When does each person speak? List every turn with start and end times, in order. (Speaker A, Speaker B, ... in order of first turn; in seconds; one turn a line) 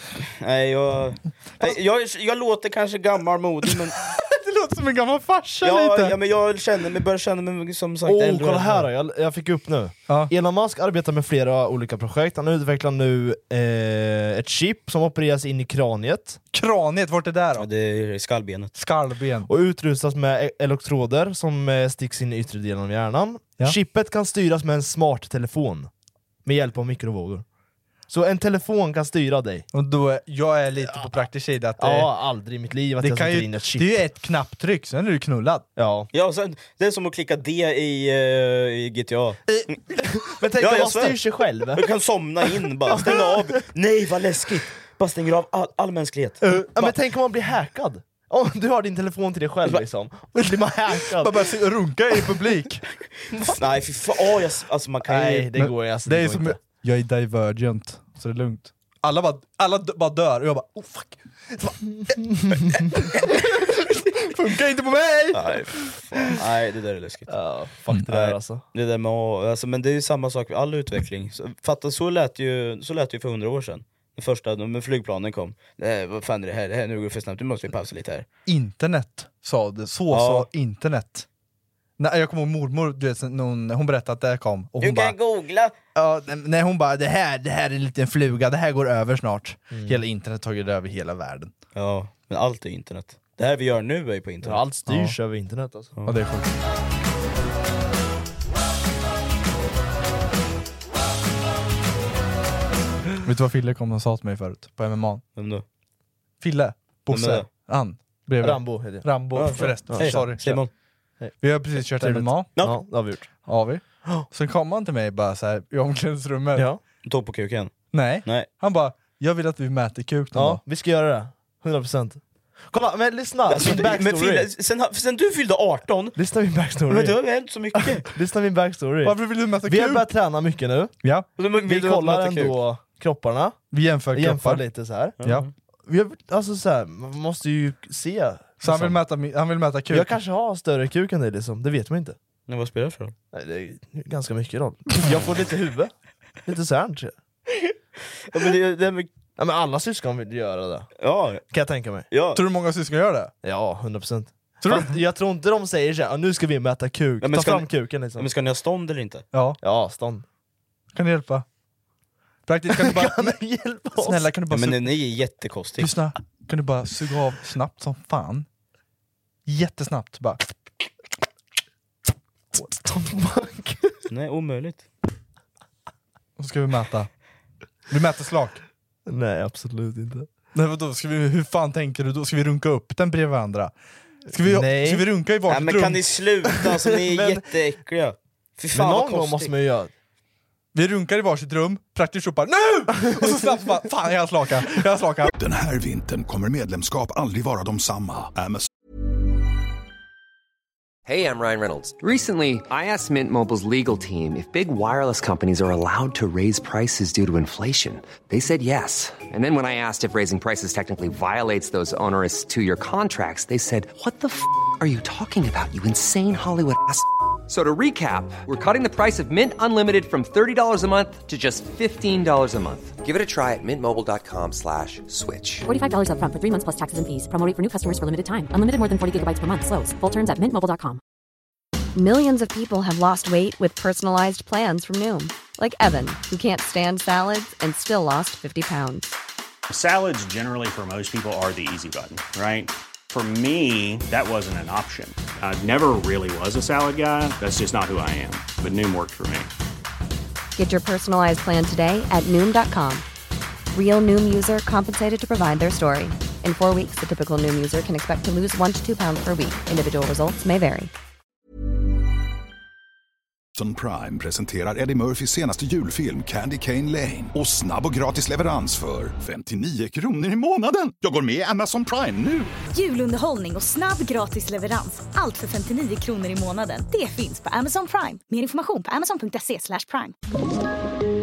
Speaker A: 0.1-4.0
Speaker B: 3.7-6.2
Speaker A: 5.6-8.9
Speaker C: 8.1-16.4
Speaker B: 10.1-10.3
Speaker B: 16.5-17.7
Speaker A: 17.6-18.7
Speaker B: 18.8-19.5
Speaker C: 19.5-25.9
Speaker C: 26.4-27.4
Speaker C: 28.1-29.7
Speaker B: 29.7-32.1
Speaker C: 31.8-33.9
Speaker B: 33.0-35.7
Speaker C: 35.8-36.1
Speaker A: 36.1-39.8
Speaker C: 40.1-41.9
Speaker A: 40.6-41.2
Speaker A: 41.7-46.5
Speaker C: 42.9-43.6
Speaker B: 46.4-47.0
Speaker C: 46.7-51.4
Speaker B: 51.0-52.9
Speaker A: 53.5-55.5
Speaker C: 55.0-56.6
Speaker B: 55.5-65.9
Speaker C: 61.9-62.7
Speaker A: 65.3-67.4
Speaker C: 67.3-68.6
Speaker A: 68.1-78.3
Speaker B: 78.5-81.3
Speaker A: 80.1-80.5
Speaker B: 82.0-85.2
Speaker A: 84.8-85.7
Speaker B: 86.0-91.5
Speaker C: 89.7-90.0
Speaker A: 91.8-94.7
Speaker C: 94.4-95.9
Speaker B: 94.9-95.2
Speaker B: 96.1-96.6
Speaker B: 103.2-105.2
Speaker A: 105.4-105.6
Speaker B: 106.4-110.6
Speaker A: 107.1-107.5
Speaker C: 108.4-110.5
Speaker A: 109.3-110.7
Speaker C: 111.2-113.3
Speaker B: 111.4-112.6
Speaker B: 113.5-116.7
Speaker C: 116.5-116.8
Speaker A: 117.0-117.7
Speaker B: 117.9-120.6
Speaker C: 120.3-124.5
Speaker A: 123.5-126.2
Speaker C: 126.2-127.2
Speaker A: 126.9-128.1
Speaker C: 127.8-130.9
Speaker B: 129.0-130.1
Speaker B: 131.0-131.3
Speaker A: 131.4-132.6
Speaker C: 131.7-133.6
Speaker B: 133.7-134.7
Speaker C: 134.1-135.2
Speaker A: 135.2-135.5
Speaker B: 135.2-135.5
Speaker C: 135.9-139.0
Speaker B: 138.6-140.2
Speaker C: 139.9-142.2
Speaker A: 142.5-143.2
Speaker C: 143.3-145.9
Speaker C: 146.5-147.2
Speaker A: 148.3-149.1
Speaker C: 149.4-150.9
Speaker A: 151.0-151.4
Speaker C: 151.5-152.1
Speaker A: 152.1-152.4
Speaker B: 152.3-153.3
Speaker C: 153.4-158.3
Speaker B: 154.6-155.0
Speaker A: 157.2-159.2
Speaker B: 159.3-159.6
Speaker C: 159.6-160.2
Speaker B: 160.9-161.5
Speaker B: 162.5-163.4
Speaker C: 162.7-164.3
Speaker B: 164.0-165.0
Speaker A: 164.5-165.9
Speaker B: 165.8-168.5
Speaker B: 169.5-170.5
Speaker C: 172.6-174.0
Speaker A: 174.1-174.9
Speaker B: 176.4-177.1
Speaker B: 177.9-178.6
Speaker C: 179.1-180.3
Speaker B: 180.5-183.7
Speaker B: 184.3-186.0
Speaker C: 184.4-185.1
Speaker A: 185.5-189.5
Speaker C: 186.5-187.5
Speaker C: 188.7-189.9
Speaker B: 190.7-195.3
Speaker D: 195.3-198.7
Speaker E: 201.1-225.7
Speaker F: 225.7-231.0
Speaker G: 231.9-239.2
Speaker H: 239.7-249.5
Speaker G: 250.6-253.1
Speaker G: 253.7-260.9
Speaker D: 263.6-272.5
Speaker I: 272.7-280.1